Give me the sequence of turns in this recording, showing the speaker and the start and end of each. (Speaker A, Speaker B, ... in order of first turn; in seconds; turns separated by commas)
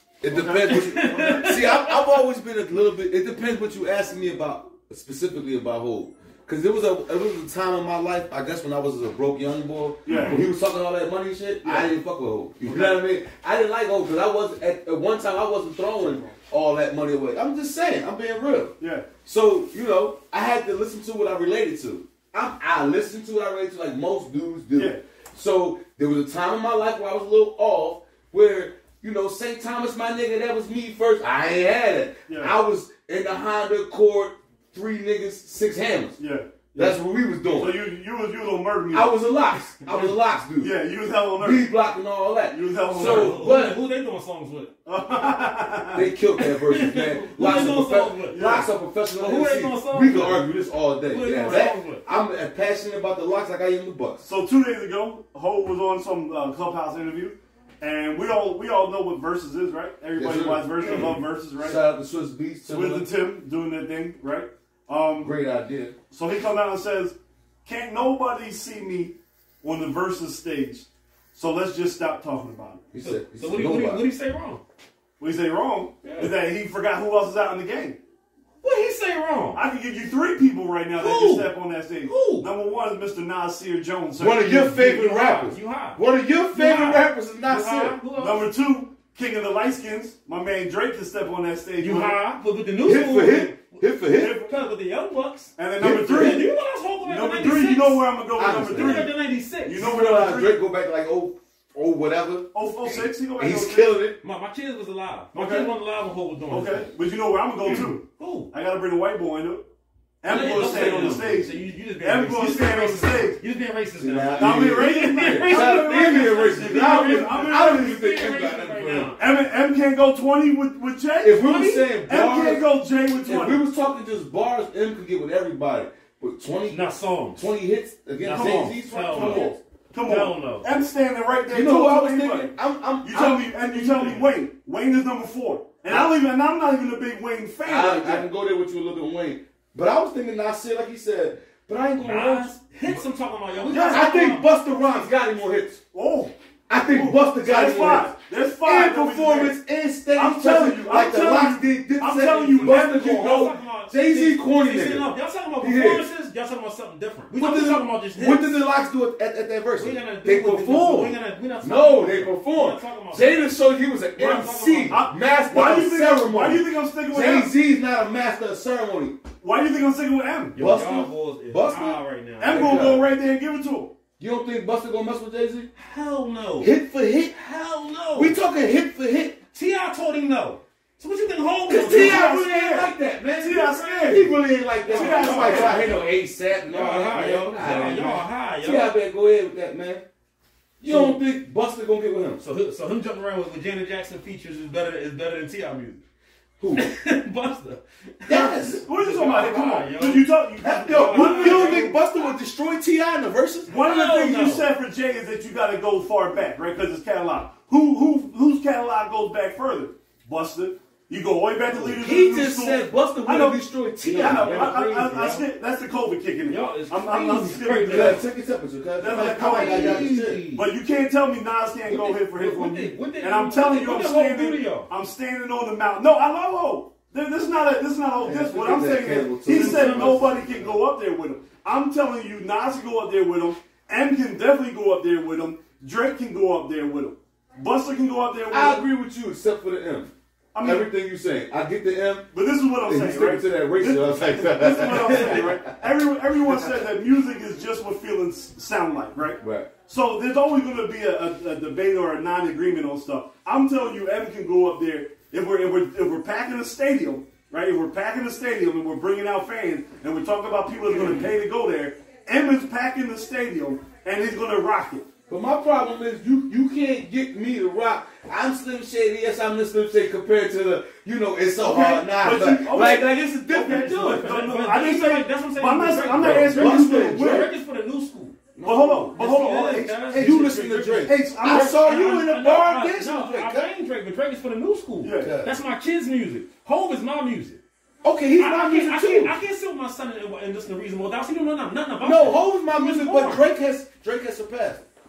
Speaker A: 0.2-36.2, Speaker B: 0.3-1.6, Speaker C: 0.7-2.2, Speaker B: 10.1-10.4, Speaker C: 10.1-10.4, Speaker B: 11.6-11.9, Speaker B: 12.6-13.0, Speaker B: 16.0-16.4, Speaker B: 18.8-19.1, Speaker B: 24.8-25.0, Speaker B: 32.3-32.5, Speaker B: 36.2-37.0, Speaker A: 36.8-37.8, Speaker B: 37.5-39.1, Speaker A: 38.9-40.8, Speaker B: 40.6-41.7, Speaker A: 41.4-43.8, Speaker B: 42.5-43.5, Speaker C: 42.9-44.7, Speaker B: 44.9-46.1, Speaker A: 45.9-54.3, Speaker C: 46.4-48.5, Speaker B: 48.3-48.7, Speaker C: 49.2-50.5, Speaker C: 51.1-52.0, Speaker B: 54.2-61.8, Speaker A: 60.2-63.1, Speaker B: 62.7-65.3, Speaker A: 65.2-66.0, Speaker B: 66.1-72.8, Speaker A: 72.9-74.0, Speaker C: 73.0-74.6, Speaker B: 75.2-78.0, Speaker C: 76.0-76.4, Speaker C: 78.6-79.6, Speaker B: 79.5-84.7, Speaker C: 81.0-81.5, Speaker C: 82.0-82.5, Speaker A: 84.2-88.0, Speaker C: 84.5-86.0, Speaker C: 86.5-88.5, Speaker B: 88.2-92.2, Speaker C: 91.8-98.1, Speaker A: 92.8-94.4, Speaker B: 94.1-94.5, Speaker B: 95.6-96.5, Speaker A: 95.8-96.5, Speaker B: 97.0-100.6, Speaker A: 98.4-99.1, Speaker C: 98.6-99.8, Speaker A: 99.7-104.2, Speaker B: 102.5-104.0, Speaker C: 104.2-106.9, Speaker B: 105.3-105.7, Speaker B: 106.5-109.6, Speaker C: 107.7-108.5, Speaker B: 110.2-113.4, Speaker A: 110.3-111.5, Speaker C: 110.3-119.2, Speaker A: 114.0-119.2, Speaker B: 114.4-118.1, Speaker B: 119.2-123.6, Speaker A: 121.2-122.7, Speaker A: 123.2-129.6, Speaker C: 126.7-127.4, Speaker C: 128.2-129.5, Speaker B: 128.3-138.3, Speaker C: 130.0-130.7, Speaker A: 131.5-133.5, Speaker C: 133.7-134.3, Speaker A: 137.7-142.6, Speaker C: 142.0-144.5, Speaker B: 143.7-144.1, Speaker A: 143.7-145.8, Speaker B: 145.9-146.3, Speaker A: 146.7-155.1, Speaker B: 146.8-149.6, Speaker B: 150.1-153.3, Speaker C: 152.6-158.6, Speaker A: 155.6-156.1, Speaker A: 157.4-169.2, Speaker C: 159.8-163.5, Speaker B: 164.2-167.5, Speaker C: 164.2-165.0, Speaker B: 169.4-170.6, Speaker C: 170.6-172.9, Speaker A: 170.6-173.1, Speaker B: 172.4-173.9, Speaker A: 174.2-175.7, Speaker C: 175.8-176.7, Speaker A: 176.6-177.4, Speaker C: 177.3-178.4, Speaker A: 178.2-179.4, Speaker C: 179.5-182.3, Speaker A: 181.7-190.0, Speaker B: 181.9-184.3, Speaker B: 184.9-186.0, Speaker C: 184.9-186.1, Speaker C: 186.7-188.9, Speaker A: 190.8-192.4, Speaker C: 190.8-191.2, Speaker C: 192.4-196.0, Speaker A: 196.6-196.9, Speaker C: 196.8-202.0, Speaker A: 198.3-198.8, Speaker B: 198.8-202.0, Speaker A: 200.6-203.7, Speaker B: 203.7-218.2, Speaker C: 203.7-204.7, Speaker A: 211.8-215.3, Speaker C: 214.1-215.4, Speaker C: 216.5-218.2, Speaker A: 217.9-220.4, Speaker B: 219.0-238.9, Speaker C: 219.1-220.7, Speaker C: 221.9-224.9, Speaker A: 228.2-230.8, Speaker C: 229.5-230.2, Speaker A: 238.5-242.3, Speaker B: 240.5-240.9, Speaker B: 242.3-265.1, Speaker A: 242.8-245.8, Speaker C: 245.0-245.4, Speaker A: 249.4-249.7, Speaker A: 265.3-274.3, Speaker B: 271.6-277.5, Speaker C: 273.5-278.4, Speaker A: 276.1-277.5, Speaker A: 278.6-279.5, Speaker B: 278.6-280.5, Speaker C: 279.1-287.6, Speaker A: 280.1-283.7, Speaker B: 281.0-281.8, Speaker B: 285.0-285.4, Speaker A: 285.2-285.6, Speaker A: 288.0-289.4, Speaker C: 288.4-293.4, Speaker A: 292.0-294.8